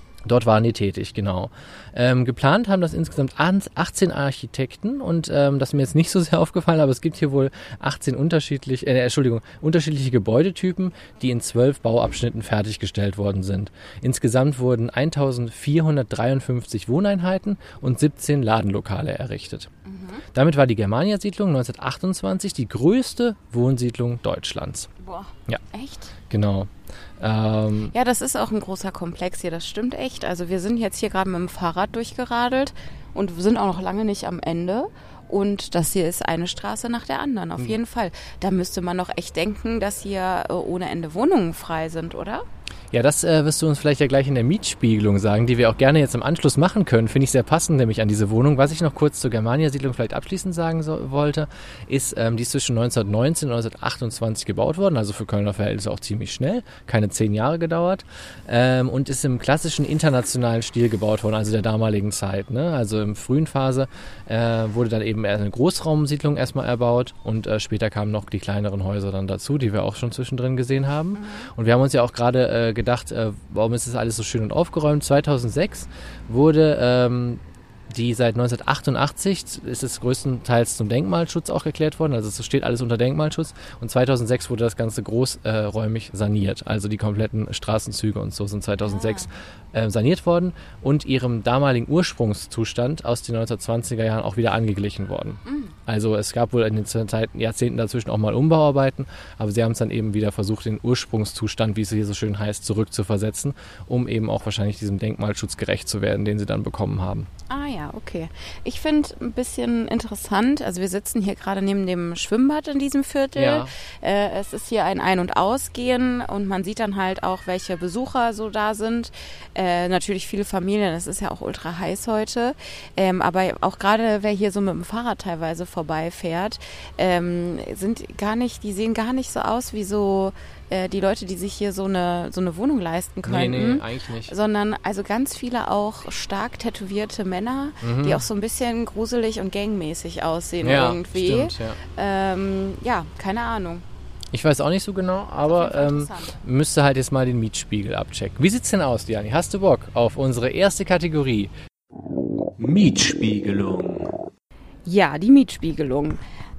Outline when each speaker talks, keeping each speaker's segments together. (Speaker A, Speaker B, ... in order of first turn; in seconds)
Speaker A: 0.2-19.7, 20.3-24.9, 26.3-27.9, 42.9-107.3, 113.3-113.7, 133.2-134.3, 137.8-138.2, 140.6-141.8, 144.3-151.5, 152.6-154.2
Speaker B: 19.8-20.2, 25.0-26.1, 27.9-42.4, 71.2-71.5, 88.8-89.3, 95.5-95.7, 107.5-143.8, 145.4-146.3, 154.8-156.2